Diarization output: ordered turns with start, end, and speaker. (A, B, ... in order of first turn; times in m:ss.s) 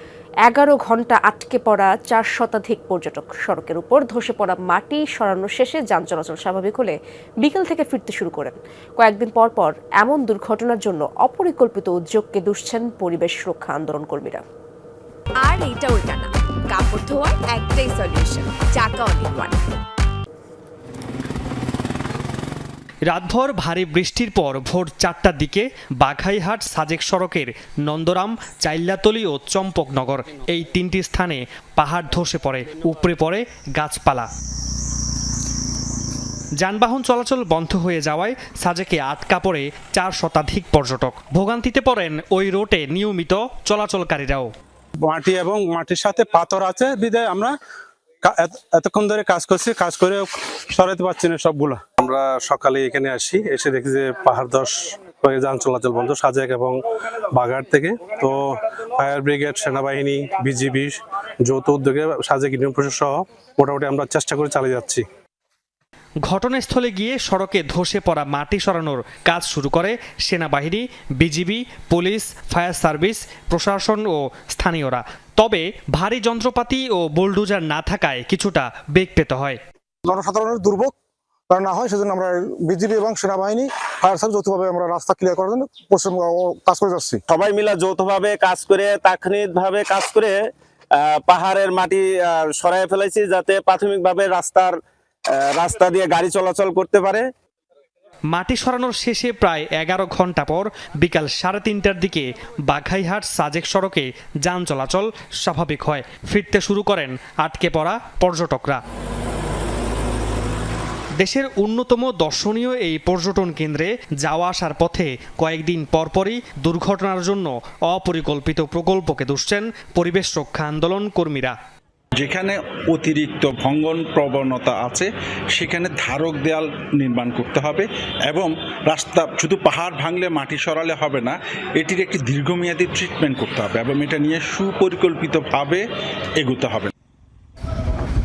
0:00.4-0:14.4 A
0:15.4-0:19.6 B
0:23.1-0:34.3 C
0:36.6-0:44.5 C
0:45.0-0:47.6 D
0:48.2-0:56.8 D
0:57.3-1:05.0 D
1:06.2-1:19.6 C
1:20.0-1:20.9 E
1:21.5-1:27.2 E
1:27.3-1:30.4 F
1:31.0-1:34.8 F
1:35.3-1:37.3 F
1:38.3-1:48.8 C
1:51.2-2:01.6 C
2:02.2-2:15.8 G
2:16.4-2:16.9 G